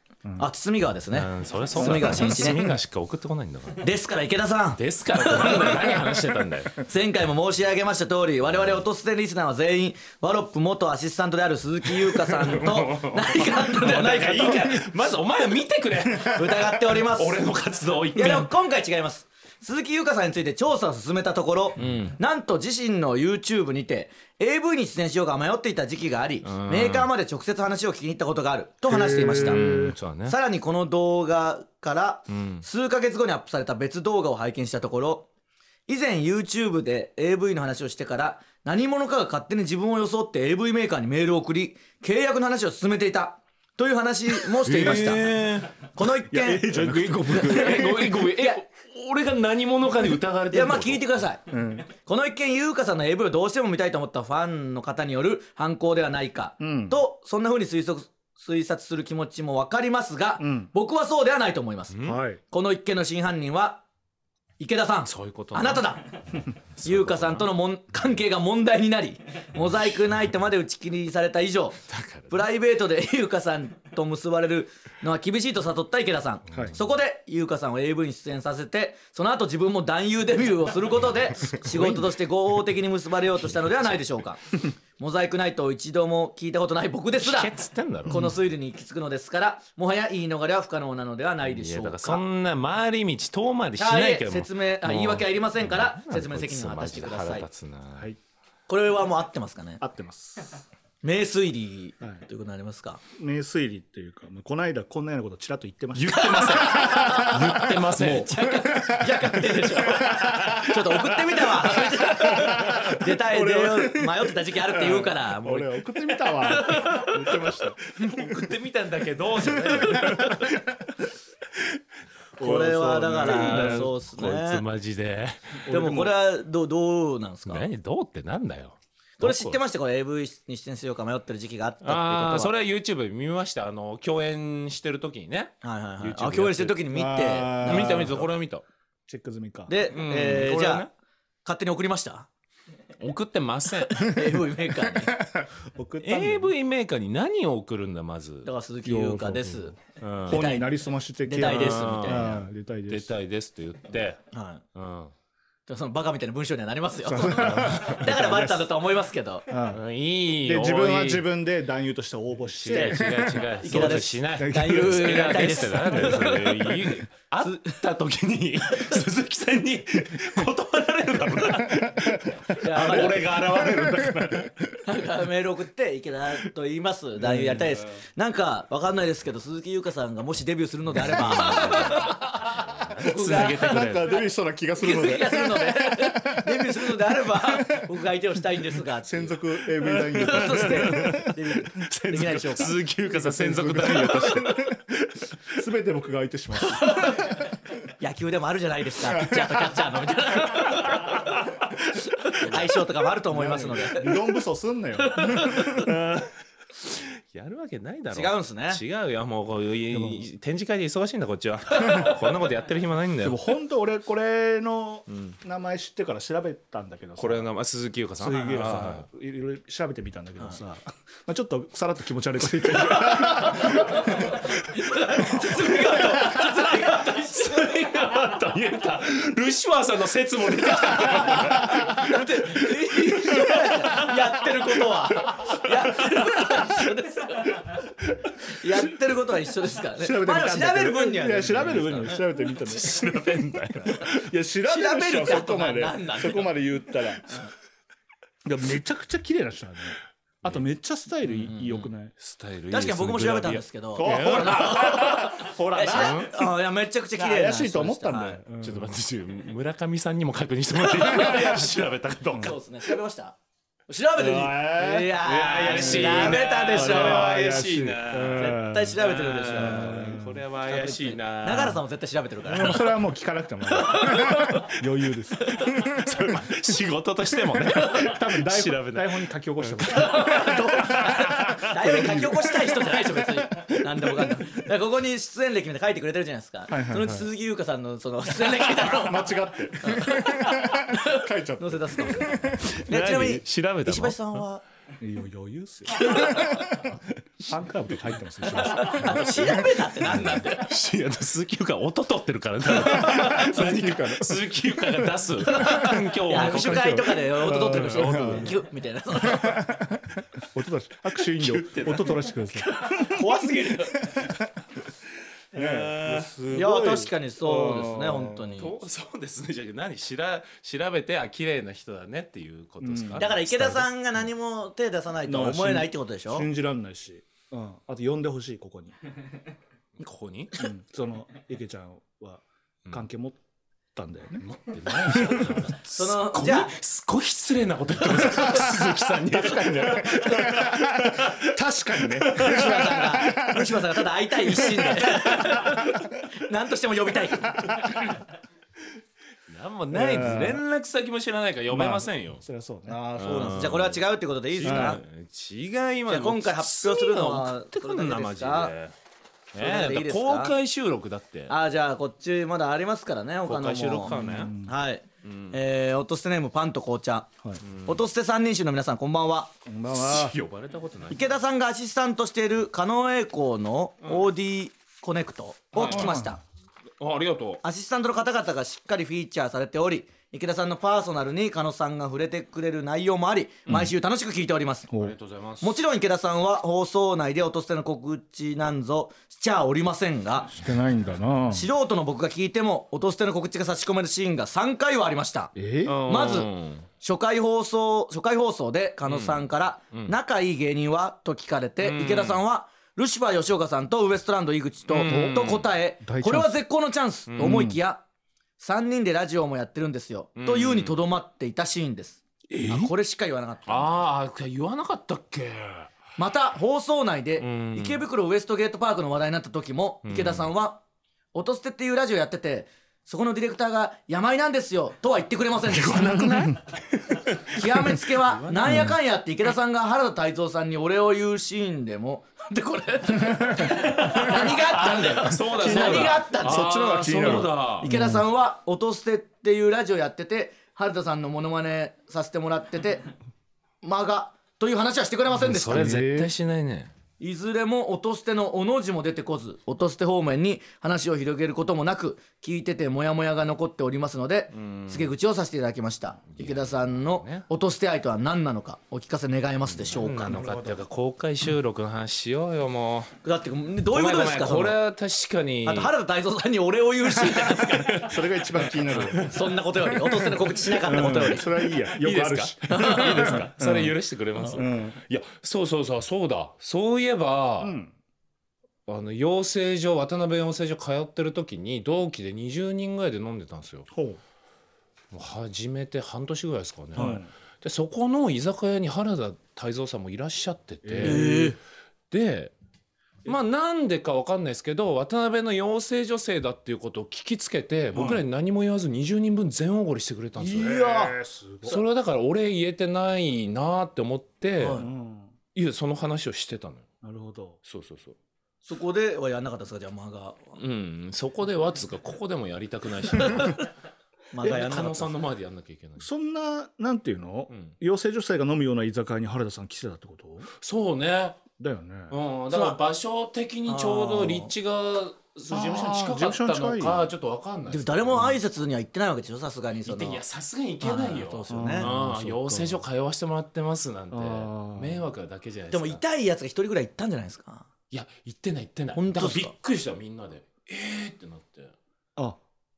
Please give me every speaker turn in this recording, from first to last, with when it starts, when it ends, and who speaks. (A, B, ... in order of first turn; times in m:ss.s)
0:00.4-0:02.7 A
0:01.1-0:03.9 B
0:01.8-0:02.6 C
0:03.8-0:06.0 A
0:04.8-0:06.8 B
0:06.8-0:14.8 A
0:12.2-0:18.5 B
0:16.1-0:16.4 C
0:16.3-0:17.4 A
0:18.2-0:35.3 A
0:21.8-0:22.2 B
0:26.4-0:27.1 B
0:28.9-0:30.0 C
0:29.4-0:30.4 B
0:32.3-0:32.6 B
0:35.9-0:46.7 A
0:44.6-0:45.9 B
0:46.3-0:48.2 C
0:46.7-0:51.1 B
0:47.6-0:48.6 A
0:50.5-0:51.4 A
0:51.5-0:51.9 C
0:52.0-1:03.8 A
0:56.6-0:57.0 C
1:00.4-1:00.7 C
1:01.9-1:02.2 B
1:02.0-1:02.4 C
1:04.6-1:27.5 A
1:05.0-1:05.9 B
1:06.8-1:07.5 B
1:11.9-1:12.4 B
1:16.5-1:16.8 B
1:21.4-1:22.0 B
1:27.2-1:28.2 B
1:28.1-1:32.2 A
1:28.1-1:28.4 C
1:31.4-1:38.1 B
1:33.8-1:37.5 A
1:38.7-1:39.8 A
1:39.8-1:40.6 C
1:41.0-1:43.0 A
1:43.1-1:58.5 C
1:45.9-1:48.4 B
1:46.4-1:47.3 A
1:48.0-1:57.1 A
1:56.6-2:00.8 B
1:59.5-2:00.6 C
2:02.4-2:03.9 C
2:02.4-2:04.6 A
2:03.2-2:05.6 B
2:05.6-2:06.1 C
2:05.7-2:07.6 A
2:07.5-2:09.6 B
2:09.2-2:12.5 A
2:11.8-2:16.8 B
2:15.6-2:18.2 A
2:16.9-2:18.3 C
2:17.6-2:18.7 B
2:19.1-2:19.7 C
2:19.7-2:20.9 A
2:19.9-2:20.9 B
2:21.4-2:22.3 A
2:23.0-2:24.2 B
2:23.9-2:25.2 A
2:24.9-2:26.5 C
2:26.0-2:28.5 B
2:28.4-2:29.8 A
2:28.8-2:33.1 C
2:30.0-2:30.5 B
2:30.3-2:30.7 A
2:31.2-2:32.5 A
2:31.4-2:32.4 B
2:32.9-2:34.2 B
2:34.3-2:34.6 A
2:34.7-2:35.1 B
2:35.7-2:39.5 A
2:37.0-2:38.7 C
2:37.3-2:38.1 B
2:39.5-2:39.8 C
2:39.7-2:41.3 B
2:40.4-2:45.6 C
2:42.5-2:54.6 B
2:42.7-2:43.1 A
2:43.6-2:46.7 A
2:47.4-2:47.8 A
2:51.6-2:54.8 C
2:52.6-2:53.4 A
2:54.9-3:04.2 A
2:57.2-2:57.9 C
3:01.0-3:04.1 B
3:01.1-3:01.8 C
3:03.2-3:07.9 C
3:04.8-3:09.4 A
3:09.0-3:11.3 C
3:10.0-3:12.8 A
3:10.2-3:15.6 B
3:13.1-3:14.8 C
3:15.5-3:17.5 C
3:16.7-3:17.2 A
3:18.0-3:21.3 A
3:19.0-3:19.8 C
3:20.5-3:22.7 B
3:22.1-3:24.2 A
3:23.3-3:25.9 C
3:25.2-3:25.9 A
3:25.3-3:26.3 B
3:26.8-3:33.4 B
3:28.1-3:28.8 A
3:29.9-3:30.3 C
3:33.2-3:37.5 C
3:35.1-3:35.4 B
3:37.2-3:39.1 B
3:38.2-3:44.4 C
3:42.9-3:47.9 A
3:43.8-3:44.4 B
3:45.2-3:52.1 B
3:51.0-3:57.8 A
3:52.6-3:56.5 B
3:58.5-4:02.2 A
4:00.0-4:07.4 C
4:02.6-4:04.3 B
4:04.7-4:06.6 A
4:08.4-4:12.1 C
4:11.2-4:16.4 B
4:12.7-4:18.4 A
4:14.0-4:16.3 C
4:17.2-4:19.0 C
4:18.6-4:22.6 B
4:20.9-4:21.6 A
4:21.1-4:21.6 C
4:22.4-4:23.4 A
4:23.9-4:27.3 A
4:24.2-4:25.2 C
4:25.2-4:31.8 B
4:25.7-4:30.4 C
4:28.4-4:33.0 A
4:32.4-4:36.1 C
4:33.7-4:34.7 A
4:35.4-4:35.9 A
4:35.7-4:42.2 B
4:37.7-4:38.1 A
4:37.9-4:42.8 C
4:39.9-4:54.6 A
4:43.7-4:44.3 C
4:46.7-4:47.3 C
4:48.7-4:52.7 C
4:52.4-4:54.4 B
4:55.0-5:00.3 C
4:56.0-4:56.5 A
4:56.0-4:56.8 B
4:58.5-5:00.7 A
4:58.7-5:08.6 B
5:02.8-5:06.5 C
5:03.0-5:03.4 A
5:05.5-5:09.6 A
5:07.4-5:08.5 C
5:09.2-5:13.3 C
5:11.3-5:12.3 B
5:12.6-5:14.3 A
5:14.1-5:14.4 C
5:15.5-5:16.3 B
5:15.5-5:18.5 C
5:16.5-5:18.8 A
5:18.5-5:23.4 B
5:22.8-5:23.9 C
5:23.2-5:26.5 A
5:25.3-5:29.0 C
5:30.0-5:30.6 B
5:30.6-5:33.4 C
5:34.0-5:34.4 C
5:34.4-5:43.5 B
5:35.0-5:35.6 C
5:35.9-5:36.7 A
5:38.2-5:43.8 C
5:42.4-5:48.0 A
5:44.6-5:45.8 B
5:44.7-5:45.1 C
5:49.5-5:52.4 B
5:49.9-5:50.6 C
5:51.7-5:53.7 C
5:52.9-5:55.0 A
5:53.2-5:54.0 B
5:54.5-5:58.9 B
5:54.6-5:55.0 C
5:56.1-5:58.7 A
5:59.5-6:01.5 B
5:59.6-6:00.6 A
6:01.5-6:07.3 A
6:03.4-6:04.5 B
6:04.1-6:04.8 C
6:05.2-6:05.6 B
6:07.6-6:08.0 B
6:07.9-6:09.5 A
6:09.7-6:10.4 C
6:09.9-6:11.4 B
6:11.1-6:16.4 A
6:15.7-6:16.2 B
6:15.8-6:16.3 C
6:17.0-6:17.6 B
6:17.6-6:24.9 A
6:24.9-6:25.2 C
6:25.0-6:25.8 B
6:25.6-6:30.5 A
6:30.5-6:31.7 C
6:31.5-6:35.5 A
6:35.6-6:36.0 C
6:35.8-6:36.9 B
6:36.1-6:36.5 A
6:37.0-6:48.0 A
6:39.1-6:40.1 B
6:41.8-6:42.4 B
6:44.9-6:45.7 B
6:46.0-6:46.5 C
6:47.3-6:47.8 B
6:48.6-6:53.9 A
6:50.4-6:51.0 B
6:52.5-6:52.9 B
6:53.7-6:56.0 B
6:56.2-7:00.8 A
6:57.4-6:58.0 B
7:00.0-7:00.5 B
7:01.3-7:06.3 A
7:05.7-7:08.9 B
7:07.5-7:23.1 A
7:08.6-7:09.0 C
7:13.6-7:17.9 B
7:15.6-7:18.2 C
7:23.8-7:25.9 A
7:25.4-7:26.9 B
7:25.6-7:26.3 C
7:27.2-7:40.5 A
7:34.5-7:35.1 B
7:36.3-7:37.5 B
7:39.7-7:43.1 B
7:40.2-7:40.8 C
7:43.2-7:44.8 A
7:43.9-7:45.9 B
7:45.6-7:48.1 A
7:47.2-7:49.6 B
7:48.0-7:49.2 C
7:49.2-7:51.5 A
7:50.7-7:55.0 C
7:51.9-7:57.8 B
7:52.7-7:53.4 A
7:57.6-7:57.9 C
7:58.9-8:03.9 B
8:03.9-8:04.2 C
8:05.1-8:11.3 B
8:07.0-8:07.3 C
8:10.8-8:11.6 C
8:11.0-8:11.6 A
8:12.1-8:12.5 B
8:13.2-8:21.0 B
8:18.0-8:18.2 C
8:20.4-8:21.8 C
8:20.4-8:21.2 A
8:21.6-8:24.8 B
8:24.6-8:24.9 A
8:24.7-8:25.3 C
8:25.5-8:26.9 B
8:27.0-8:27.6 C
8:27.6-8:28.2 B
8:28.6-8:30.4 A
8:30.6-8:33.6 B
8:34.3-8:35.2 A
8:34.4-8:36.1 B
8:36.0-8:40.5 C
8:40.6-8:41.4 B
8:41.6-8:42.1 C
8:42.1-8:48.4 B
8:42.5-8:42.8 A
8:43.7-8:44.5 A
8:45.5-8:47.0 C
8:47.7-8:50.2 A
8:49.8-8:56.0 B
8:50.8-8:51.9 A
8:51.5-8:52.8 C
8:54.1-8:55.0 C
8:55.7-8:57.7 A
8:57.9-9:01.7 B
8:59.0-8:59.5 A